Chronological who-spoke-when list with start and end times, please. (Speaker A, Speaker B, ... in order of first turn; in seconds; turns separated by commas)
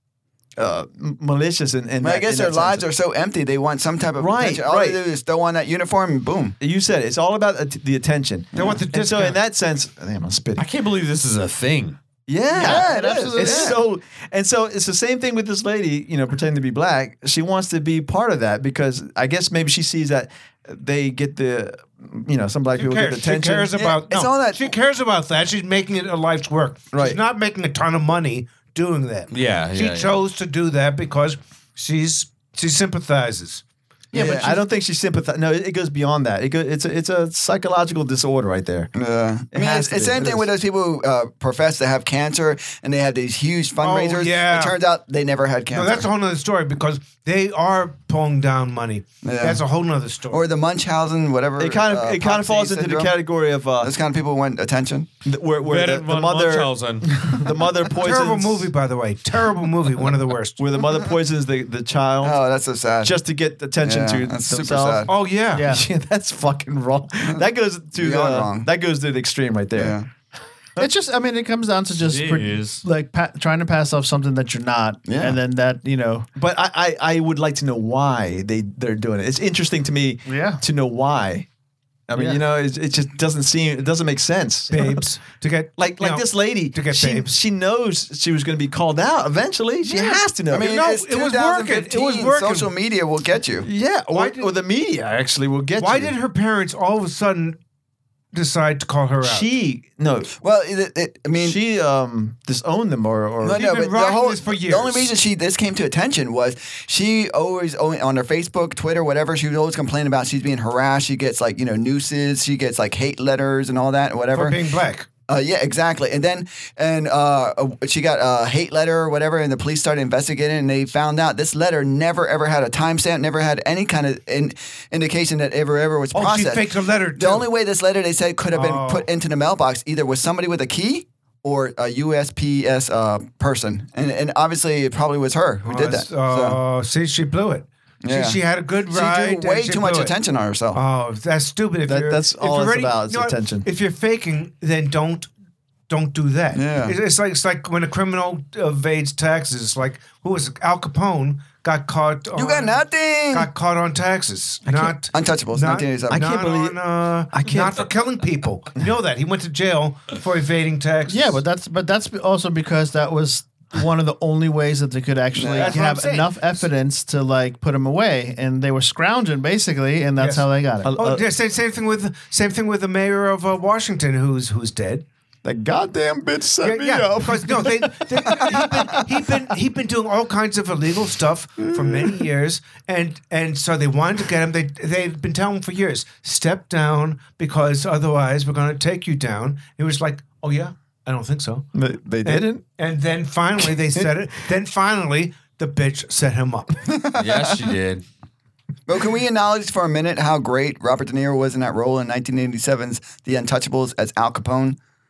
Speaker A: 0.6-2.9, Speaker B: 2.0-6.6, Speaker A: 4.2-5.0, Speaker A: 6.6-10.7, Speaker B: 8.6-8.8, Speaker C: 8.6-9.4, Speaker D: 10.6-12.0, Speaker A: 12.3-24.0, Speaker B: 12.5-13.8, Speaker E: 12.6-13.8, Speaker C: 22.7-33.6, Speaker B: 23.9-24.7, Speaker A: 26.9-27.2, Speaker D: 29.3-30.2, Speaker B: 34.1-34.6, Speaker A: 34.1-38.9, Speaker B: 39.0-46.1, Speaker A: 39.5-40.5, Speaker C: 43.8-44.8, Speaker C: 45.7-50.5, Speaker B: 49.2-49.6, Speaker B: 50.3-53.2, Speaker A: 51.6-53.9, Speaker B: 53.8-55.1, Speaker A: 55.2-58.7, Speaker D: 55.6-57.1, Speaker C: 58.0-60.6, Speaker A: 60.6-62.4, Speaker B: 62.2-63.2, Speaker A: 63.0-70.0, Speaker B: 63.8-65.1, Speaker C: 65.1-65.7, Speaker E: 65.5-65.8, Speaker B: 67.2-68.7, Speaker B: 69.8-70.1, Speaker E: 70.8-76.3, Speaker D: 72.0-72.8, Speaker B: 75.1-75.4, Speaker A: 76.4-81.5, Speaker E: 80.3-80.6, Speaker A: 82.1-85.0, Speaker E: 82.2-82.4, Speaker C: 84.7-87.3, Speaker A: 85.8-90.8, Speaker C: 89.9-92.7, Speaker B: 90.5-93.7, Speaker A: 93.6-96.2, Speaker C: 94.1-94.5, Speaker C: 95.8-97.6, Speaker C: 98.3-99.5, Speaker A: 99.2-100.3, Speaker B: 100.4-101.6, Speaker A: 101.4-103.7, Speaker B: 103.4-114.6, Speaker C: 103.5-105.1, Speaker C: 114.3-115.1, Speaker B: 115.3-136.6, Speaker C: 126.1-127.5, Speaker C: 128.5-129.1, Speaker C: 135.6-140.2, Speaker B: 138.0-140.8, Speaker C: 140.7-145.3, Speaker A: 141.8-143.7, Speaker C: 145.9-161.4, Speaker B: 146.5-147.0, Speaker B: 152.3-153.5, Speaker A: 154.7-155.0, Speaker B: 155.1-156.3, Speaker A: 156.1-156.8, Speaker A: 157.3-157.9, Speaker E: 161.1-170.9, Speaker B: 165.3-165.8, Speaker C: 165.6-166.6, Speaker C: 170.2-175.1, Speaker A: 170.8-171.3, Speaker A: 175.4-179.0, Speaker C: 176.6-191.7, Speaker A: 181.6-182.1, Speaker A: 191.7-192.6, Speaker C: 192.2-196.8, Speaker B: 196.9-197.6, Speaker D: 197.2-198.0, Speaker B: 198.9-204.8